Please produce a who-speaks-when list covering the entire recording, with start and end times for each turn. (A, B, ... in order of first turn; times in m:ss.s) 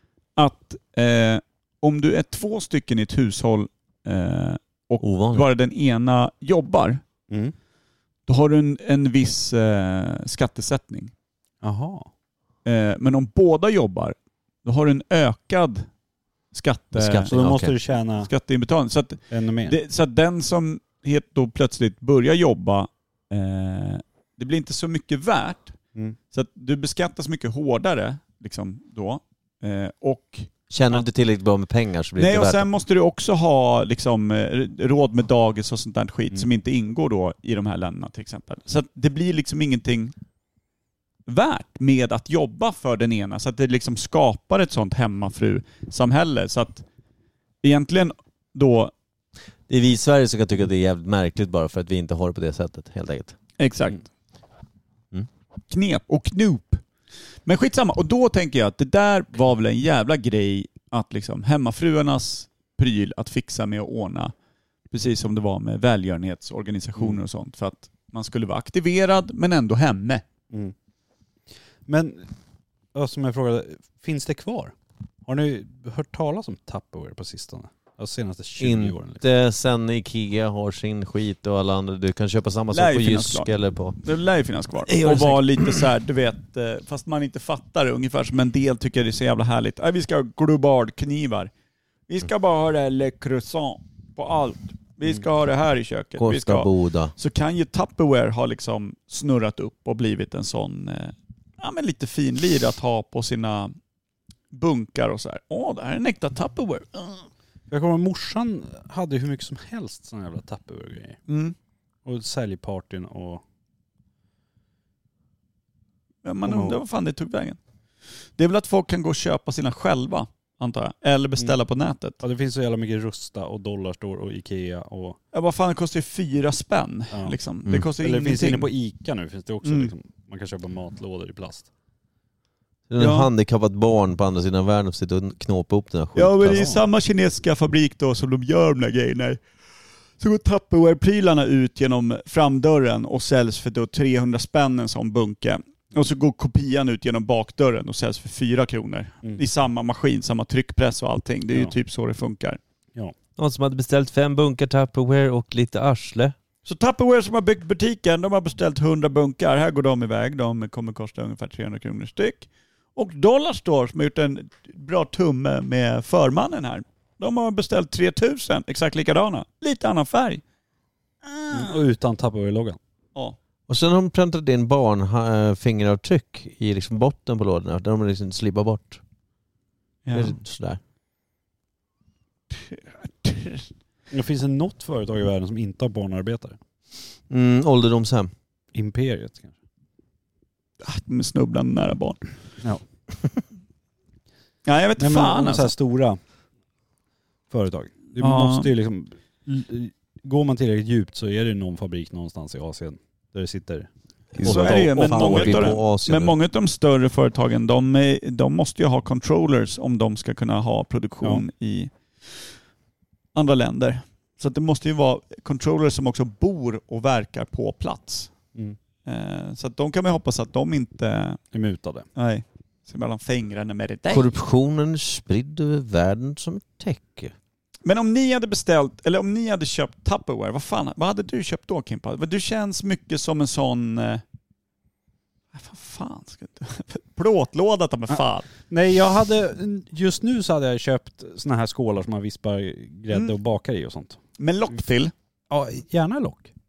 0:00.4-0:07.0 A
0:05.0-0:05.5 B
0:08.3-0:11.1 A
0:11.6-0:12.1 C
0:12.6-0:15.9 A
0:16.5-0:17.3 A
0:16.9-0:17.7 B
0:17.3-0:18.3 C
0:18.2-0:25.8 A
0:19.3-0:19.8 C
0:26.3-0:31.0 A
0:30.7-0:32.7 B
0:32.2-0:40.1 A
0:41.3-0:46.8 A
0:47.6-0:48.9 A
0:49.7-0:53.4 B
0:53.6-0:54.1 A
0:55.7-0:56.8 A
0:57.4-1:04.3 A
1:04.9-1:10.2 A
1:11.8-1:12.3 C
1:12.9-1:14.7 C
1:15.2-1:19.2 C
1:18.6-1:24.0 B
1:22.7-1:23.5 A
1:24.0-1:31.5 A
1:24.9-1:25.8 B
1:32.1-1:43.7 A
1:36.2-1:37.1 B
1:44.5-1:47.2 A
1:47.7-1:51.2 C
1:51.3-1:51.5 A
1:52.0-1:53.4 C
1:56.2-1:57.6 A
1:56.4-1:56.8 C
1:58.4-2:02.2 A
2:02.2-2:05.2 C
2:05.3-2:08.7 A
2:07.1-2:07.4 C
2:08.0-2:11.7 C
2:09.6-2:09.9 A
2:12.9-2:16.8 B
2:13.0-2:13.3 A
2:16.2-2:19.4 A
2:16.5-2:16.8 C
2:20.2-2:32.6 A
2:33.4-2:36.3 B
2:36.6-2:50.4 A
2:51.2-2:51.7 A
2:51.5-2:52.8 C
2:53.7-2:59.0 B
3:00.0-3:00.4 A
3:00.1-3:00.8 B
3:02.5-3:03.7 A
3:04.1-3:06.6 C
3:07.3-3:08.3 B
3:08.7-3:09.5 C
3:10.8-3:12.2 A
3:14.6-3:15.7 A
3:15.0-3:16.2 C
3:17.5-3:25.8 C
3:18.2-3:18.7 A
3:24.4-3:26.3 B
3:24.4-3:32.5 A
3:33.3-3:38.3 A
3:39.0-3:41.4 A
3:41.5-3:42.1 C
3:42.2-3:44.3 A
3:44.0-3:47.3 B
3:47.8-3:54.2 A
3:55.5-3:58.5 A
3:58.1-4:04.2 C
4:04.4-4:05.1 A
4:05.5-4:06.5 C